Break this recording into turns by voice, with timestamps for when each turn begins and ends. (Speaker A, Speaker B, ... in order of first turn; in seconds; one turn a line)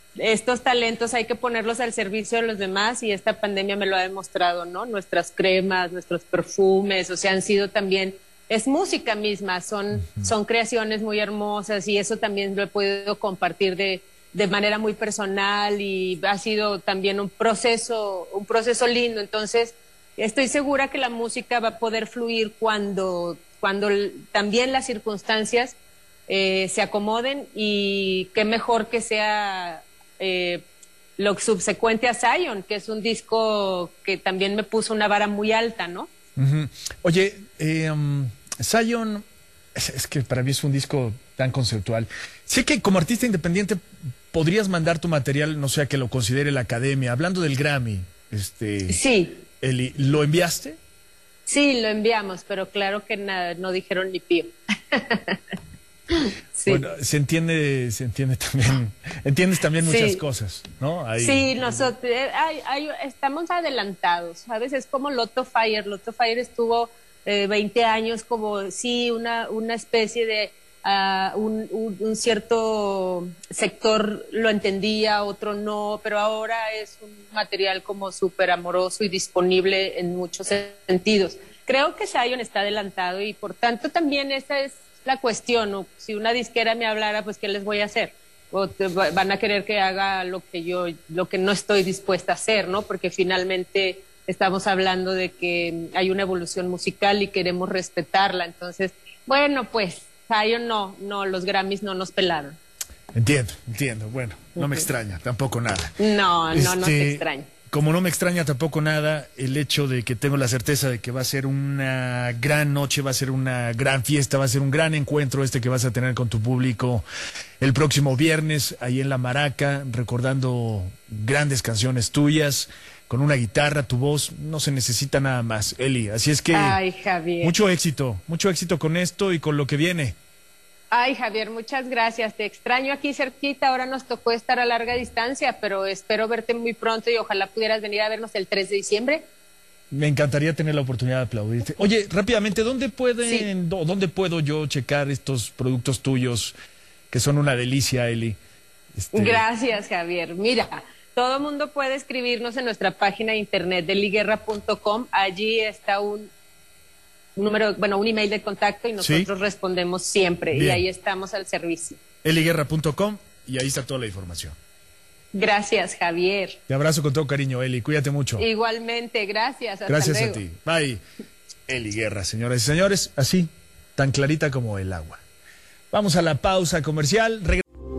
Speaker A: 0.2-25.8
Speaker A: 26.3-30.6
Speaker A: 31.2-36.1
Speaker B: 36.4-39.2
Speaker B: 39.7-43.8
Speaker B: 44.3-49.0
Speaker A: 48.9-49.4
Speaker B: 49.6-50.8
Speaker A: 51.5-55.4
Speaker A: 56.1-56.8
Speaker B: 56.7-61.8
Speaker A: 59.8-60.2
Speaker A: 61.2-102.6
Speaker B: 103.1-105.9
Speaker A: 104.5-104.9
Speaker A: 106.0-107.5
Speaker B: 106.5-117.0
Speaker B: 117.6-126.8
Speaker A: 126.5-127.5
Speaker B: 127.4-130.1
Speaker A: 130.9-139.3
Speaker B: 139.9-146.5
Speaker B: 147.1-148.4
Speaker B: 148.9-149.4
Speaker A: 149.1-156.3
Speaker A: 157.3-162.0
Speaker B: 159.0-159.3
Speaker B: 160.5-160.8
Speaker B: 162.2-164.6
Speaker A: 165.3-166.6
Speaker B: 166.7-168.4
Speaker A: 168.4-170.4
Speaker B: 169.9-171.0
Speaker B: 171.7-175.2
Speaker B: 175.9-177.6